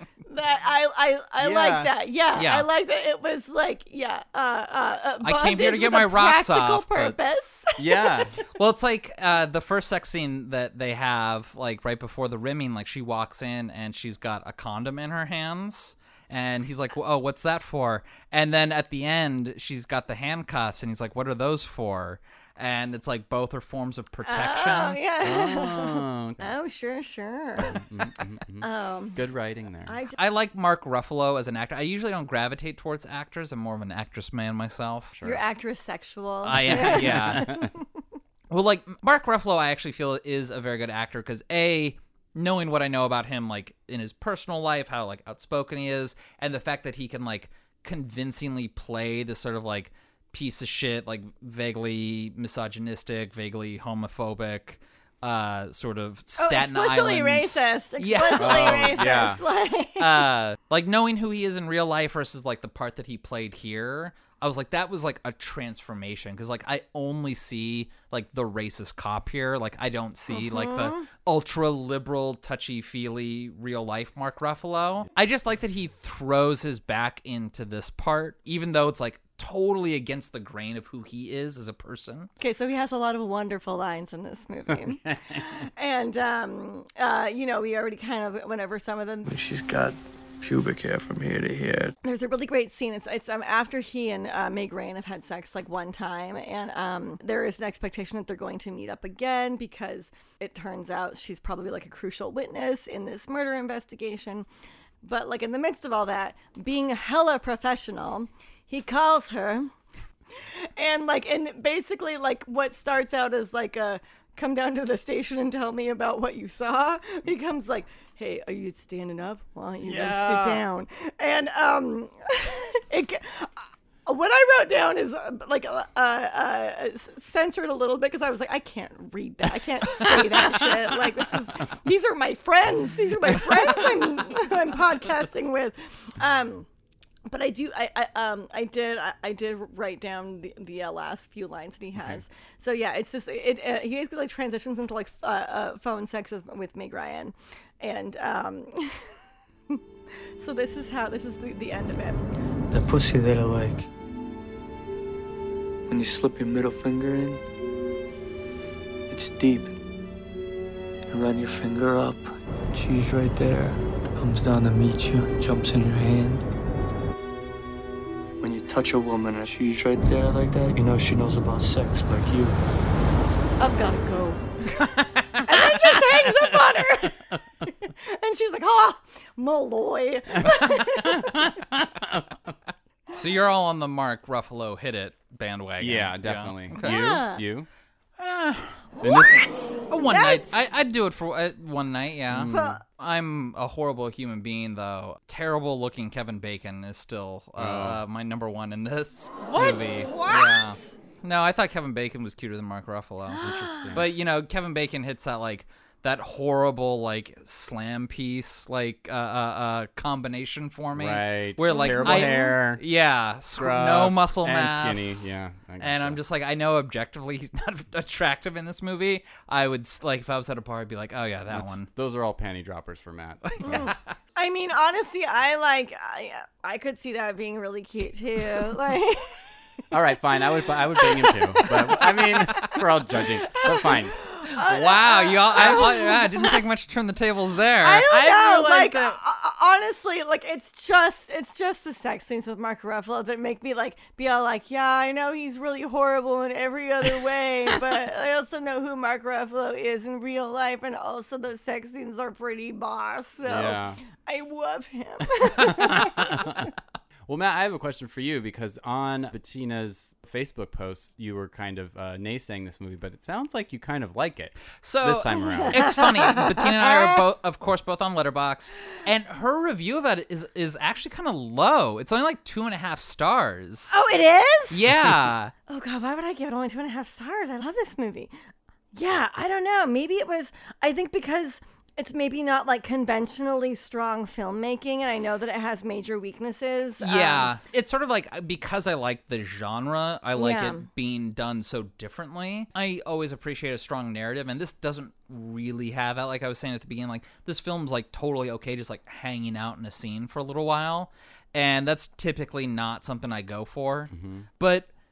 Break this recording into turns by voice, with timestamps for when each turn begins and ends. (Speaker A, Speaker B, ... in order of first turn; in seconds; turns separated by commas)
Speaker A: 0.3-8.4, Speaker B: 1.4-1.9, Speaker C: 2.4-2.7, Speaker C: 5.2-7.2, Speaker B: 7.8-8.3, Speaker C: 8.6-25.0, Speaker A: 24.2-27.8, Speaker B: 25.2-26.5, Speaker B: 27.6-30.0, Speaker A: 28.6-29.2, Speaker A: 29.9-30.2, Speaker C: 30.2-35.1, Speaker B: 35.1-35.4, Speaker A: 35.2-37.8, Speaker C: 36.4-37.6, Speaker B: 36.6-37.7, Speaker C: 38.5-59.2, Speaker A: 56.4-60.3, Speaker B: 58.4-59.4, Speaker C: 60.0-82.3, Speaker A: 70.3-71.1, Speaker A: 82.4-89.3, Speaker B: 84.7-85.7, Speaker D: 89.2-91.9, Speaker A: 92.0-104.5, Speaker A: 105.0-109.7, Speaker A: 110.4-136.7, Speaker B: 119.8-120.6, Speaker A: 137.3-149.1, Speaker B: 142.0-142.2, Speaker A: 150.4-152.2, Speaker D: 152.7-153.9, Speaker D: 155.9-157.4, Speaker D: 159.1-159.7, Speaker D: 161.1-166.4, Speaker D: 168.4-172.6, Speaker A: 173.6-181.5, Speaker B: 176.7-177.4, Speaker B: 180.4-182.5, Speaker C: 183.1-187.2, Speaker B: 185.8-187.7, Speaker A: 186.8-187.4, Speaker C: 188.2-188.8, Speaker B: 189.0-189.5, Speaker A: 189.0-190.5, Speaker C: 189.9-221.9, Speaker B: 192.3-192.8, Speaker A: 192.5-192.8, Speaker B: 197.6-198.0, Speaker B: 199.5-200.0, Speaker A: 199.5-200.9, Speaker A: 203.4-203.9, Speaker B: 203.4-204.1, Speaker B: 210.9-212.8, Speaker A: 211.7-212.6, Speaker B: 213.6-216.2, Speaker B: 221.5-223.9, Speaker C: 223.6-224.0, Speaker A: 223.6-229.4, Speaker B: 229.9-234.2, Speaker A: 230.9-232.8, Speaker A: 233.4-236.6, Speaker C: 234.6-238.2, Speaker B: 235.5-236.0, Speaker A: 237.8-256.7, Speaker B: 238.1-239.2, Speaker B: 253.4-254.0, Speaker B: 255.6-256.7, Speaker B: 257.3-266.1, Speaker C: 264.8-274.0, Speaker A: 266.0-267.2, Speaker A: 273.9-274.8, Speaker C: 274.7-275.5, Speaker A: 275.7-278.3, Speaker A: 278.9-287.5, Speaker C: 287.0-304.9, Speaker A: 290.4-290.9, Speaker B: 304.1-304.5